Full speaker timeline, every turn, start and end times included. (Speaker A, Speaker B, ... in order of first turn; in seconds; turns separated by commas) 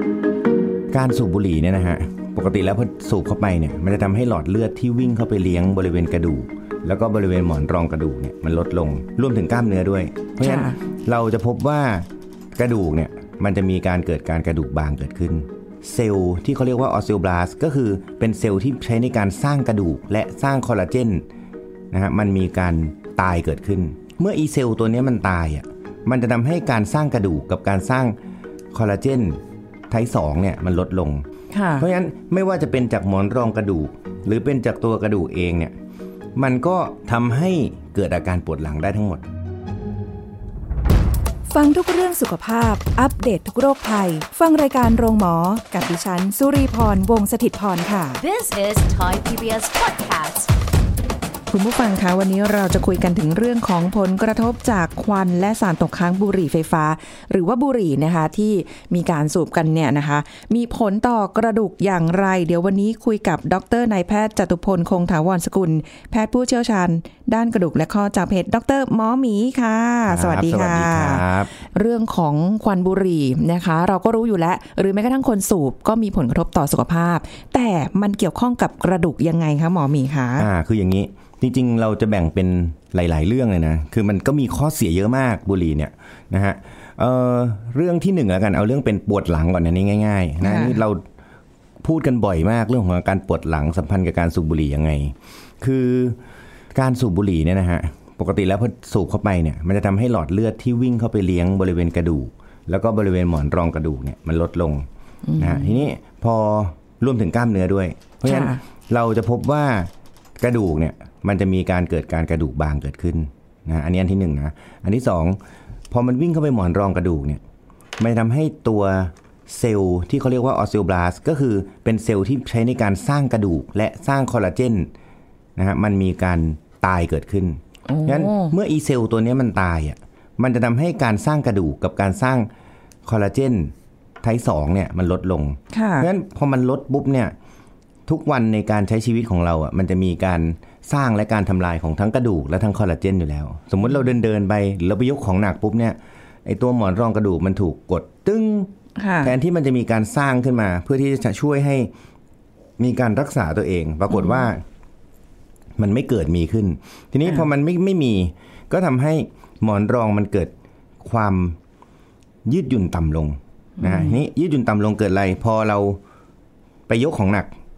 Speaker A: 0.9-21.2, Speaker B: 10.4-10.8, Speaker A: 21.9-28.1, Speaker A: 28.7-31.2, Speaker B: 31.5-31.9, Speaker A: 31.8-35.7, Speaker A: 36.4-39.3, Speaker B: 41.5-48.2, Speaker C: 48.2-50.5, Speaker B: 51.5-80.5, Speaker A: 70.1-71.5, Speaker A: 80.4-91.0, Speaker B: 90.4-90.8, Speaker A: 91.8-96.2, Speaker A: 96.7-104.8, Speaker B: 105.2-105.8, Speaker A: 105.4-115.4, Speaker B: 108.2-108.6, Speaker A: 115.9-117.4, Speaker A: 118.0-124.9, Speaker A: 125.6-132.5, Speaker B: 127.9-128.5, Speaker A: 133.1-137.3, Speaker B: 135.7-136.1, Speaker A: 138.1-151.9, Speaker B: 149.0-149.3, Speaker A: 152.8-154.6, Speaker B: 154.1-154.5, Speaker A: 155.8-161.6, Speaker A: 162.4-166.0, Speaker B: 163.8-164.2, Speaker A: 166.9-167.5